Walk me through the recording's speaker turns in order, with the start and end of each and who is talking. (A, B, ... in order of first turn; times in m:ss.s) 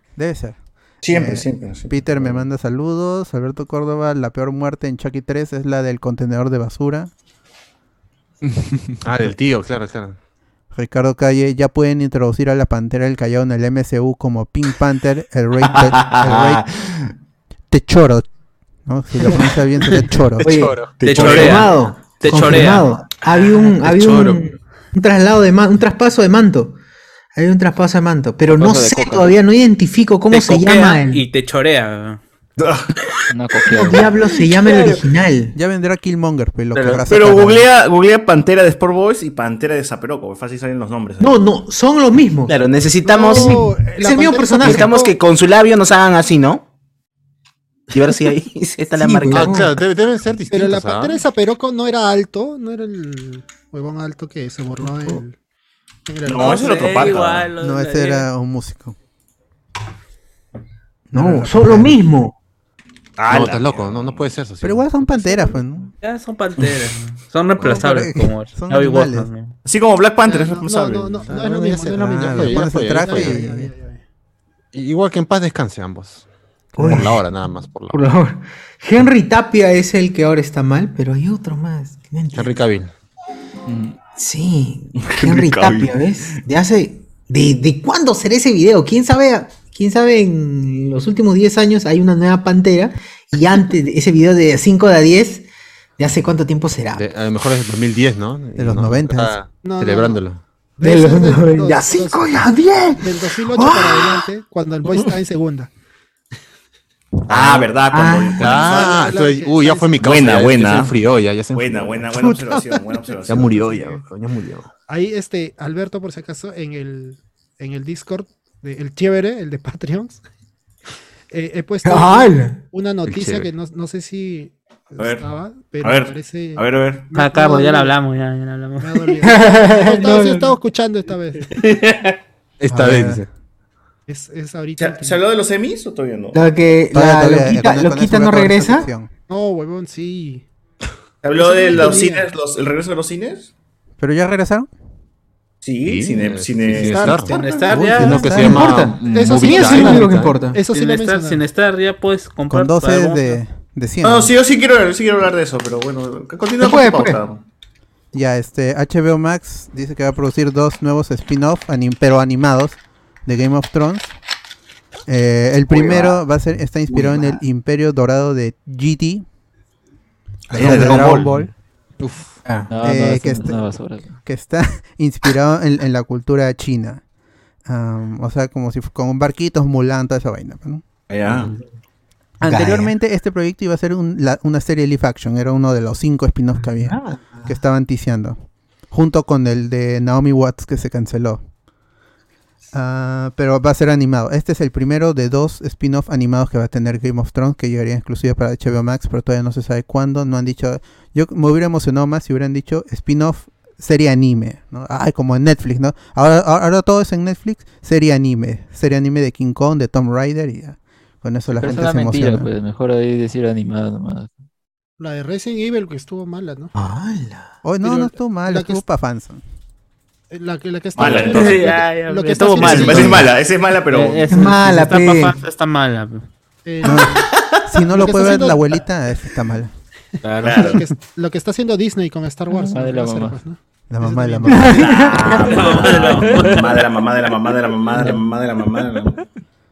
0:00.2-0:07.1 A
0:01.0-0:02.3 B
0:09.0-0:10.2 C
0:10.7-0:16.6 A
0:16.0-0:17.0 B
0:17.7-0:18.3 A
0:18.9-0:20.5 A
0:20.4-0:26.8 D
0:20.4-0:21.3 C
0:20.9-0:21.7 B
0:21.0-0:24.4 E
0:27.4-0:31.2 D
0:28.5-0:29.4 F
0:30.3-0:32.2 E
0:32.6-0:33.1 B
0:33.3-0:34.1 F
0:33.7-0:35.6 D
0:34.7-0:35.0 B
0:35.6-0:37.7 A
0:36.8-0:41.4 B
0:41.2-0:42.5 D
0:42.5-0:43.7 G
0:43.0-0:45.1 H
0:43.3-0:45.0 D
0:44.6-0:46.6 G
0:47.9-0:49.6 G
0:49.0-0:49.7 D
0:49.3-0:51.2 C
0:50.5-0:55.4 H
0:56.1-0:57.2 H
0:56.2-0:57.5 B
0:56.4-0:58.3 E
0:57.6-0:59.0 A
1:01.1-1:02.0 A
1:01.1-1:02.4 D
1:03.2-1:04.2 B
1:03.3-1:05.1 C
1:04.6-1:05.9 A
1:06.0-1:09.5 E
1:07.6-1:09.3 A
1:09.6-1:11.3 B
1:10.2-1:14.0 H
1:11.3-1:13.4 C
1:11.9-1:13.7 A
1:14.7-1:16.2 C
1:16.8-1:17.1 A
1:16.8-1:17.2 D
1:16.8-1:18.0 C
1:17.9-1:22.6 D
1:22.3-1:22.9 C
1:23.7-1:24.0 F
1:24.2-1:35.5 D
1:25.0-1:26.4 B
1:36.0-1:37.0 D
1:37.0-1:40.4 C
1:38.6-1:39.4 A
1:39.6-1:40.2 H
1:40.8-1:42.4 H
1:40.8-1:44.3 D
1:43.0-1:45.7 H
1:47.3-1:49.2 B
1:47.3-1:47.7 C
1:47.9-1:48.7 D
1:48.4-1:52.4 C
1:48.6-1:50.0 H
1:50.0-1:50.9 B
1:51.5-1:54.0 B
1:52.3-1:52.8 H
1:53.3-1:54.7 C
1:53.4-1:53.7 H
1:54.9-2:00.2 H
2:01.3-2:08.0 H
2:01.8-2:02.7 D
2:03.1-2:03.5 C
2:05.0-2:05.3 B
2:05.8-2:07.1 B
2:07.1-2:09.2 E
2:08.8-2:11.6 H
2:09.2-2:10.5 D
2:11.6-2:12.2 E
2:12.6-2:13.3 C
2:12.7-2:13.2 A
2:14.1-2:15.2 H
2:14.8-2:16.4 B
2:16.3-2:18.9 D
2:16.9-2:19.1 A
2:19.3-2:20.4 H
2:21.2-2:23.5 B
2:21.4-2:22.3 H
2:24.0-2:24.7 A
2:25.6-2:27.9 B
2:25.8-2:27.3 C
2:26.9-2:27.3 H
2:27.3-2:28.3 E
2:27.7-2:28.7 A
2:28.0-2:30.4 C
2:28.2-2:30.6 D
2:29.0-2:31.4 H
2:30.7-2:33.4 E
2:32.5-2:34.4 A
2:34.0-2:37.4 B
2:36.6-2:37.2 D
2:38.1-2:44.1 A
2:45.1-2:49.2 A
2:45.7-2:46.2 D
2:46.9-2:47.4 D
2:50.5-2:51.4 B
2:50.5-2:51.5 A
2:52.0-2:52.4 C
2:52.4-2:52.7 D
2:52.7-2:54.2 F
2:52.8-2:53.6 A
2:54.2-2:57.0 A
2:57.7-3:00.8 A
3:01.1-3:01.6 B
3:02.4-3:08.4 A
3:02.5-3:02.9 D
3:06.8-3:07.5 D
3:08.9-3:11.4 A
3:12.7-3:32.5 A
3:31.6-3:34.3 F
3:35.0-3:36.7 H
3:36.8-3:37.5 D
3:37.6-3:39.4 A
3:37.8-3:38.8 H
3:40.3-3:43.3 H
3:41.0-3:41.9 B
3:41.0-3:43.3 E
3:42.5-3:44.3 B
3:42.5-3:43.2 G
3:42.8-3:43.1 D
3:43.9-3:46.3 E
3:44.3-3:45.4 D
3:46.6-3:47.3 H
3:46.8-3:49.7 A
3:47.3-3:47.6 B
3:47.9-3:48.8 H
3:50.2-3:50.7 F
3:50.4-3:50.8 B
3:50.5-3:54.7 H
3:52.6-3:53.4 F
3:53.9-3:54.9 A
3:54.5-3:55.6 D
3:54.7-3:59.2 B
3:55.5-3:56.8 E